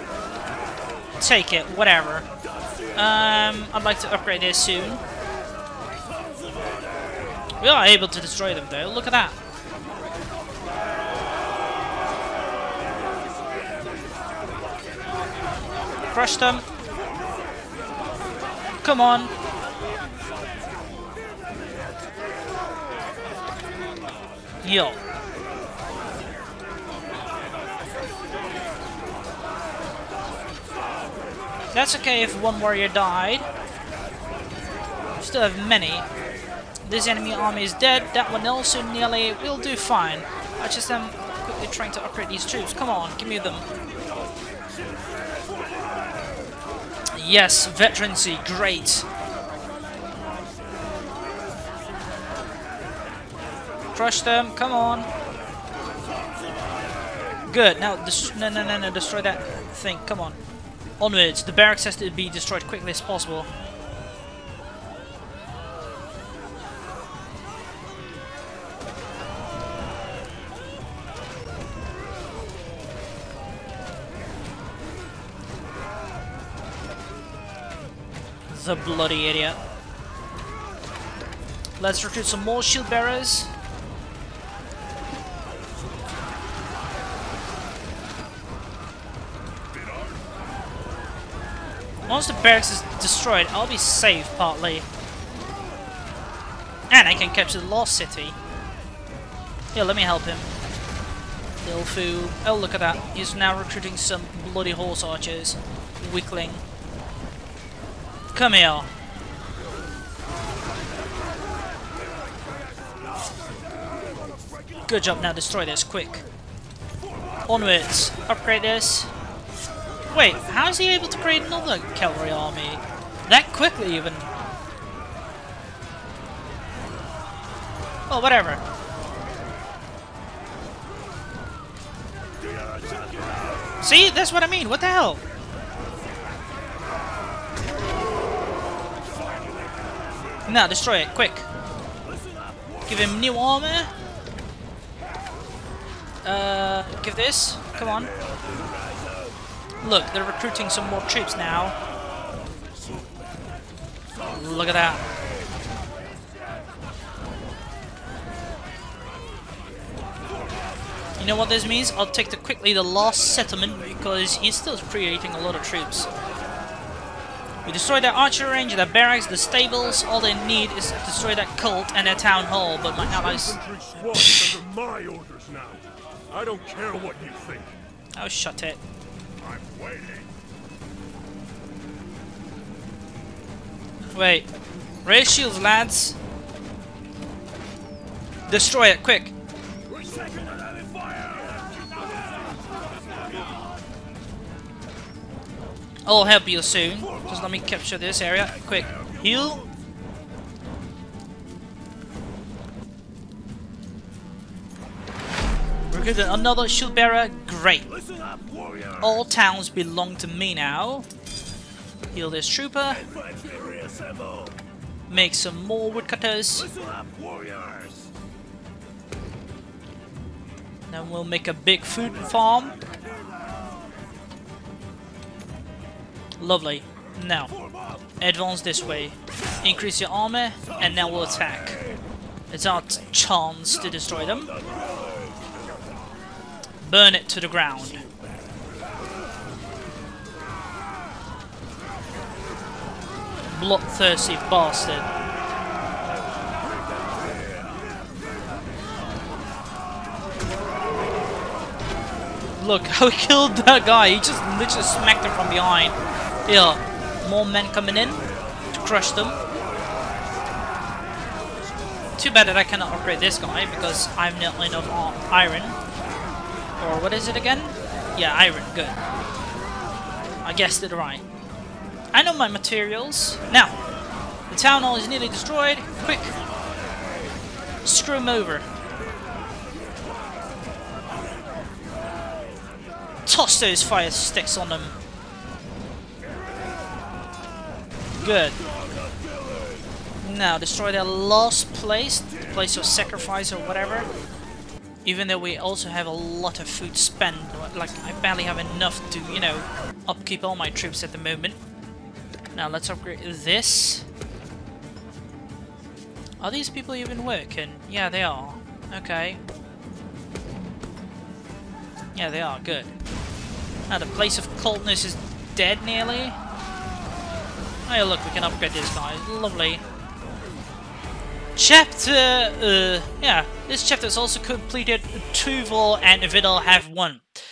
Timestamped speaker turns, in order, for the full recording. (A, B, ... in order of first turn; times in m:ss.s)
0:01.2-0:02.3 A
0:02.4-0:03.0 B
0:02.9-0:05.0 A
0:06.0-0:07.5 B
0:07.6-0:09.4 A
0:13.4-0:14.1 B
0:16.1-0:16.6 A
0:18.8-0:19.3 A
0:24.6-0:25.0 A
0:31.7-0:33.5 A
0:35.2-0:36.0 A
0:36.8-0:43.6 A
0:44.3-0:46.4 B
0:47.1-0:49.0 A
0:53.9-0:55.1 A
0:56.0-0:57.4 B
0:57.5-1:00.4 A
1:01.0-1:03.5 A
1:18.5-1:19.6 A
1:21.8-1:23.5 A
1:32.1-1:34.9 A
1:36.9-1:38.4 A
1:39.7-1:40.5 A
1:41.6-1:46.6 A
1:48.3-1:48.9 A
1:52.3-1:55.0 B
1:54.9-1:56.2 A
1:57.0-1:57.5 B
1:57.5-1:59.1 A
2:00.1-2:04.3 A
2:08.1-2:08.6 A
2:12.4-2:13.8 B
2:13.8-2:15.2 A
2:19.1-2:19.9 B
2:20.5-2:21.5 A
2:22.0-2:23.2 B
2:22.9-2:23.9 A
2:26.2-2:28.1 A
2:28.0-2:29.4 B
2:29.8-2:31.7 A
2:32.7-2:33.5 B
2:34.2-2:35.4 B
2:34.3-2:35.0 A
2:41.2-2:46.1 A
2:47.6-2:53.6 A
2:53.0-2:57.8 C
2:54.1-2:54.6 A
2:58.1-2:58.8 A
2:59.5-3:00.2 C
3:04.1-3:04.5 A
3:05.0-3:06.2 A
3:08.5-3:09.3 A
3:09.9-3:13.6 B
3:16.0-3:19.6 A
3:17.1-3:17.5 B
3:18.5-3:19.7 B
3:25.9-3:27.9 A
3:27.9-3:29.3 B
3:29.0-3:31.1 A
3:32.1-3:33.0 A
3:32.9-3:34.6 B
3:35.1-3:36.7 A
3:36.6-3:38.1 B
3:40.9-3:42.7 A
3:42.8-3:43.6 B
3:46.4-3:47.5 A
3:47.5-3:48.1 B
3:48.2-3:51.8 A
3:50.6-3:52.0 B
3:52.5-3:54.5 A
3:53.8-3:55.6 B
3:56.8-3:58.0 A
3:57.9-3:58.6 B
4:03.5-4:05.1 A
4:06.8-4:07.9 B
4:12.6-4:16.0 A
4:16.5-4:19.4 A
4:22.2-4:25.8 A
4:26.8-4:29.0 A
4:30.4-4:31.2 A
4:32.1-4:33.7 A
4:34.5-4:36.4 A
4:36.6-4:36.9 B
4:37.8-4:38.6 A
4:43.2-4:44.9 A
4:48.2-4:48.6 A
4:48.6-4:49.9 B
4:50.2-4:54.1 A
4:55.0-5:01.6 A
5:02.5-5:04.0 A
5:06.4-5:09.4 A
5:12.1-5:12.9 A
5:13.9-5:16.4 A
5:17.9-5:19.8 A
5:21.6-5:27.2 A